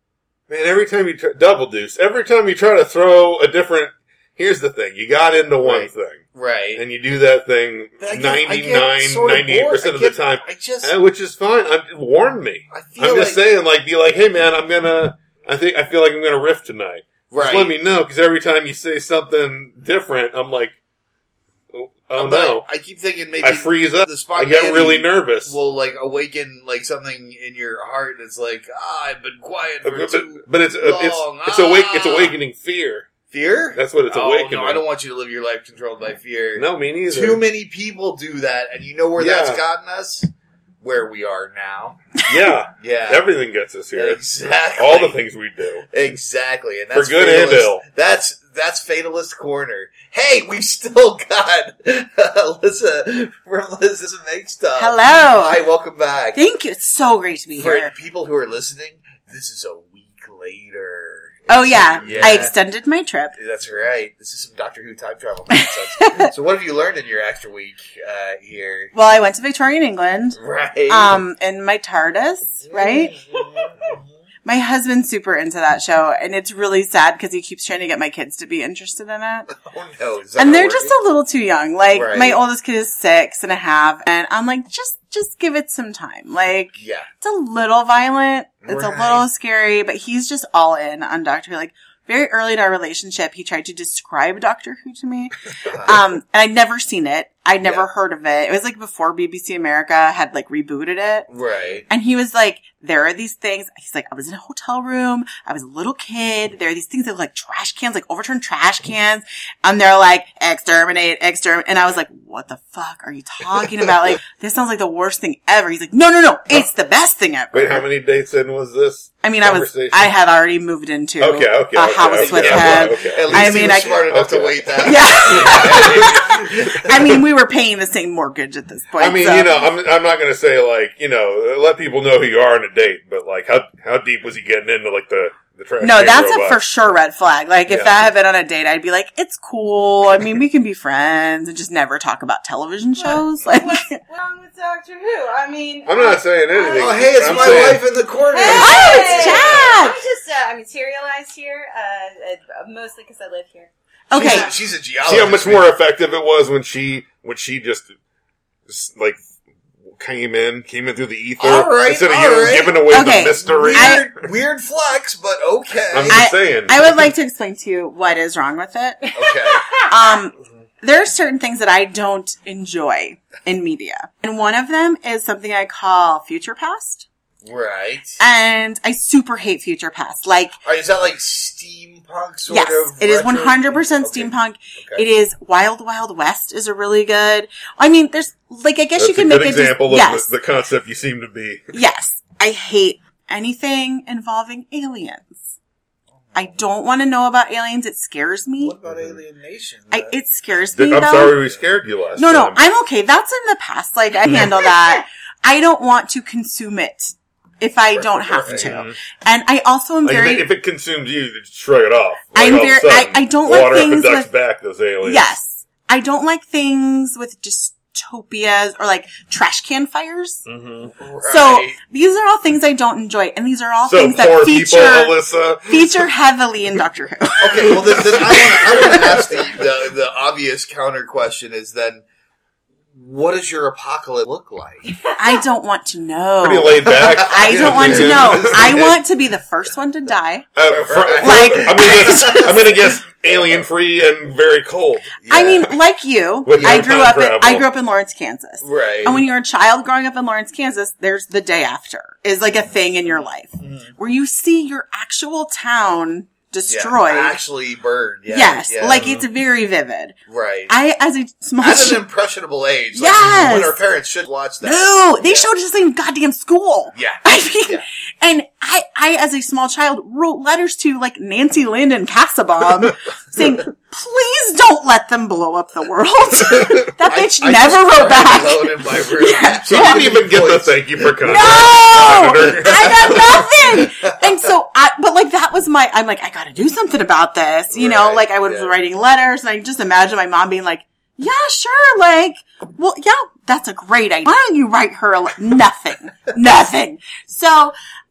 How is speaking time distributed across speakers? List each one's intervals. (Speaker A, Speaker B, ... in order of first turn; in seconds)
Speaker A: 0.5-20.8, 21.7-22.7, 23.4-25.6, 29.8-33.1, 33.7-34.9, 36.6-37.4, 39.2-39.6, 42.3-45.9, 46.9-47.8, 62.1-62.4, 117.5-120.1, 121.2-126.6, 129.0-136.9, 137.7-138.0, 145.9-147.9, 155.1-157.9, 158.7-159.2, 159.9-164.1, 165.9-166.9, 189.0-191.7, 198.9-199.2, 200.8-202.7, 208.5-208.9, 210.0-215.4, 220.5-220.9, 223.8-226.1, 228.1-229.3, 236.4-239.0, 240.6-245.2, 246.4-247.7, 279.7-283.2
Speaker B: 5.6-6.8, 8.0-10.9, 12.7-13.4, 17.3-17.7, 22.2-32.3, 33.3-40.3, 40.8-42.0, 42.8-43.3, 43.9-45.2, 45.9-56.4, 57.6-62.5, 63.4-68.9, 70.4-71.2, 72.7-74.1, 79.6-81.0, 81.9-82.4, 86.8-87.1, 88.7-89.3, 95.7-96.0, 101.3-101.9, 122.2-127.2, 146.7-149.8, 154.1-155.7, 161.4-162.9, 163.4-166.3, 169.2-169.7, 177.4-178.2, 180.6-185.1, 198.6-200.2, 207.9-208.8, 221.0-221.8, 227.4-232.0, 232.9-235.1, 236.9-238.8, 240.6-242.7, 243.3-243.6, 245.2-245.7, 246.5-247.1, 248.6-249.3, 253.6-253.9, 256.7-259.2, 260.3-260.7, 261.6-265.5, 266.9-267.8, 277.0-284.3, 287.7-288.7
Speaker C: 54.8-55.6, 56.4-57.9, 61.5-63.4, 66.0-66.3, 68.9-73.2, 74.5-79.5, 80.4-101.3, 101.9-117.8, 119.2-124.1, 124.8-129.6, 135.8-144.0, 148.5-150.0, 154.1-154.5, 162.9-164.0, 166.1-169.1, 169.8-177.1, 178.2-180.5, 182.5-190.3, 191.7-195.4, 196.3-198.8, 199.9-201.4, 202.2-210.5, 212.3-214.3, 215.0-220.4, 221.3-228.1, 235.2-240.5, 241.2-242.7, 245.3-257.4, 258.3-260.1, 260.7-262.1, 262.9-263.8, 264.6-280.1, 281.2-297.7
Speaker D: 143.0-153.7, 154.2-154.5